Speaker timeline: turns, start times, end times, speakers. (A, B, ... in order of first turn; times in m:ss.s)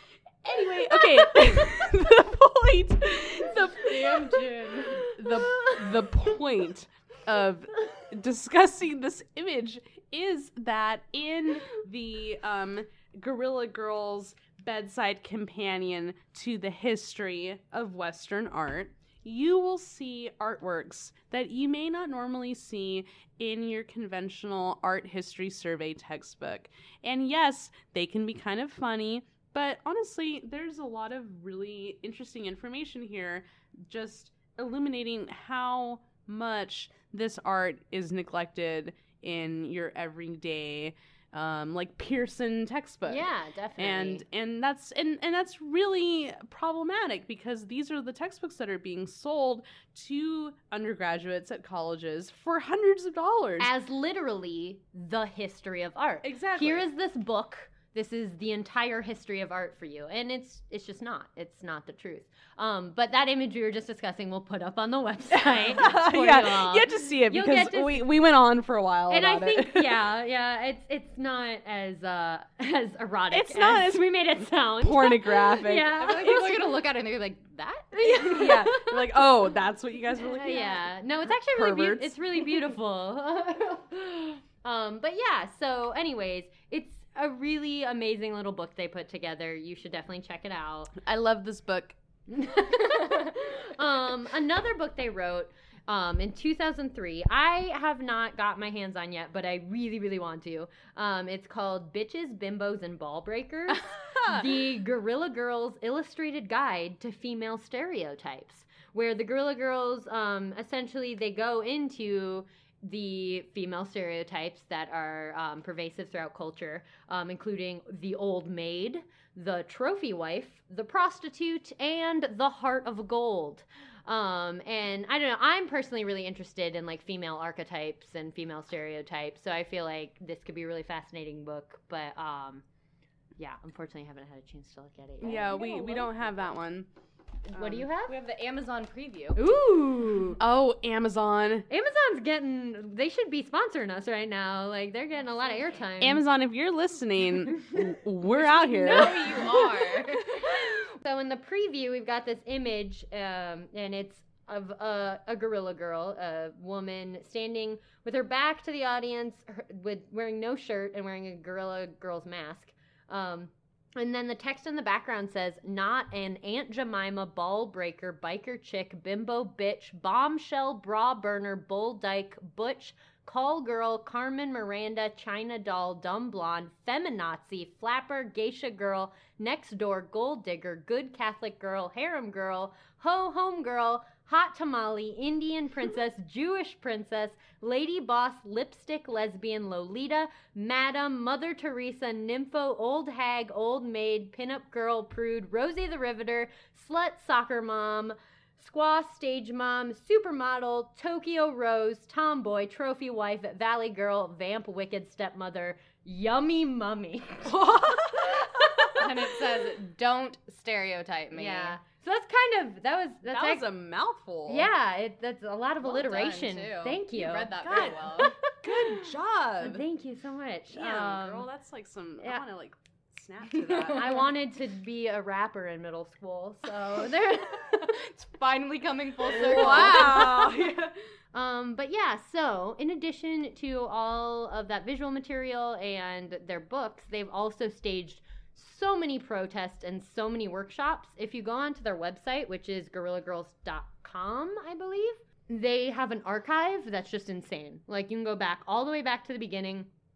0:00.4-0:53.7 A
0:03.8-0:05.1 B
0:04.6-0:05.9 C
0:43.1-0:44.2 C
0:53.6-1:08.1 C
0:56.2-0:56.9 A
1:05.3-1:10.0 A
1:09.1-1:16.6 C
1:13.3-1:14.1 A
1:14.8-1:16.7 A
1:16.0-1:18.2 B
1:17.9-1:19.0 C
1:18.0-1:22.6 A
1:20.4-1:31.0 C
1:31.0-1:32.0 A
1:32.3-2:12.6 C
1:44.1-1:44.5 A
2:13.4-2:16.4 C
2:15.2-2:16.9 A
2:17.5-2:18.2 C
2:17.5-2:17.8 A
2:18.1-2:19.4 B
2:19.4-2:20.4 C
2:20.4-2:21.7 A
2:21.7-2:26.2 C
2:26.0-2:29.4 A
2:28.4-2:30.2 B
2:28.8-3:29.0 C
3:27.4-3:28.8 A
3:29.0-3:31.8 B
3:31.3-3:33.7 C
3:33.3-3:34.7 A
3:34.5-3:39.0 C
3:35.8-3:38.4 B
3:37.6-3:39.8 A
3:39.6-3:41.5 C
3:40.7-3:44.3 A
3:43.9-3:48.0 C
3:48.0-3:50.6 B
3:49.3-3:51.0 A
3:49.5-3:50.3 C
3:51.3-4:09.9 C